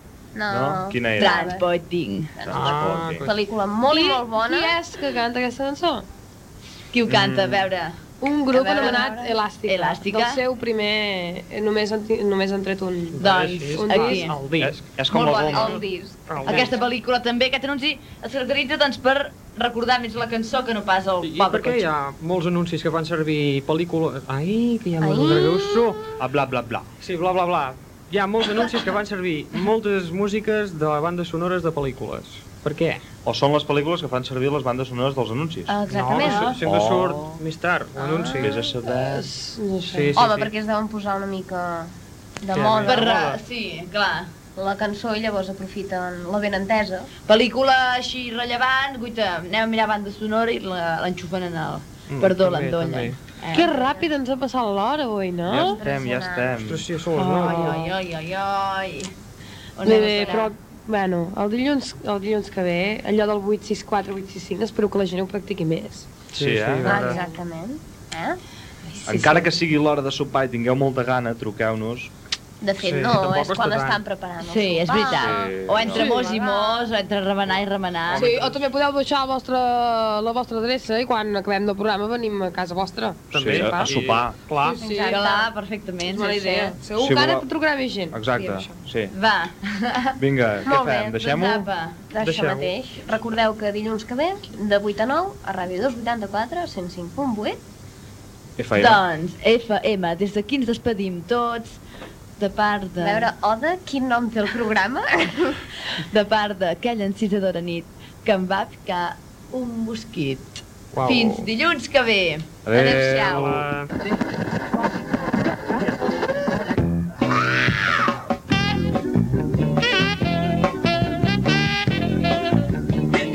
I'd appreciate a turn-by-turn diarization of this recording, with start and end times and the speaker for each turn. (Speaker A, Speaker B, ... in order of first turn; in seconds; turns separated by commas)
Speaker A: 0.3-1.6, Speaker B: 0.5-1.4, Speaker C: 1.2-2.5, Speaker B: 2.4-3.3, Speaker A: 2.5-4.8, Speaker D: 2.5-3.3, Speaker E: 3.9-6.0, Speaker C: 6.9-8.0, Speaker B: 7.1-7.6, Speaker E: 8.2-13.2, Speaker A: 8.5-9.3, Speaker C: 9.7-10.4, Speaker D: 13.1-14.8, Speaker C: 13.2-14.3, Speaker E: 13.8-14.3, Speaker B: 14.6-15.8, Speaker C: 15.1-15.8, Speaker A: 15.5-16.7, Speaker D: 16.3-16.7, Speaker C: 16.4-21.9, Speaker D: 21.2-26.1, Speaker A: 25.0-25.7, Speaker B: 26.2-26.9, Speaker D: 27.0-33.0, Speaker B: 33.2-35.8, Speaker A: 35.7-36.5, Speaker D: 35.9-38.5, Speaker E: 36.2-36.6, Speaker B: 36.6-37.4, Speaker A: 38.0-38.7, Speaker B: 38.4-39.3, Speaker E: 38.8-40.1, Speaker D: 39.9-40.5, Speaker A: 40.1-43.0, Speaker D: 42.5-43.4, Speaker C: 42.8-44.3, Speaker A: 44.5-47.1, Speaker C: 47.3-53.7, Speaker D: 52.1-53.2, Speaker E: 53.5-55.8, Speaker A: 53.6-54.1, Speaker B: 55.5-56.8, Speaker A: 55.5-56.5, Speaker D: 56.6-57.9, Speaker C: 57.1-59.1, Speaker E: 57.5-57.8, Speaker C: 59.8-60.5, Speaker E: 59.8-66.1, Speaker A: 59.9-60.5, Speaker D: 66.3-67.2, Speaker B: 66.4-67.1, Speaker A: 66.9-68.4, Speaker E: 69.0-69.5, Speaker B: 69.0-72.1, Speaker A: 72.6-76.8, Speaker D: 72.8-74.0, Speaker C: 74.4-78.3, Speaker B: 75.1-76.0, Speaker E: 75.9-76.3, Speaker D: 78.1-78.6, Speaker E: 78.2-83.8, Speaker D: 83.3-84.8, Speaker B: 83.3-84.4, Speaker E: 84.6-85.2, Speaker A: 84.8-85.5, Speaker C: 85.1-86.7, Speaker E: 86.1-88.8, Speaker A: 86.5-86.7, Speaker B: 87.0-87.5, Speaker B: 88.1-89.1, Speaker C: 89.1-90.2, Speaker B: 90.2-91.7, Speaker A: 90.7-91.2, Speaker C: 90.9-92.0, Speaker A: 92.1-97.6, Speaker D: 92.2-92.7, Speaker B: 98.6-99.0, Speaker C: 98.8-101.8, Speaker C: 102.4-103.3, Speaker A: 103.0-105.6, Speaker C: 106.1-112.5, Speaker D: 110.9-111.5, Speaker B: 112.7-113.7, Speaker A: 112.7-113.6, Speaker D: 112.9-113.9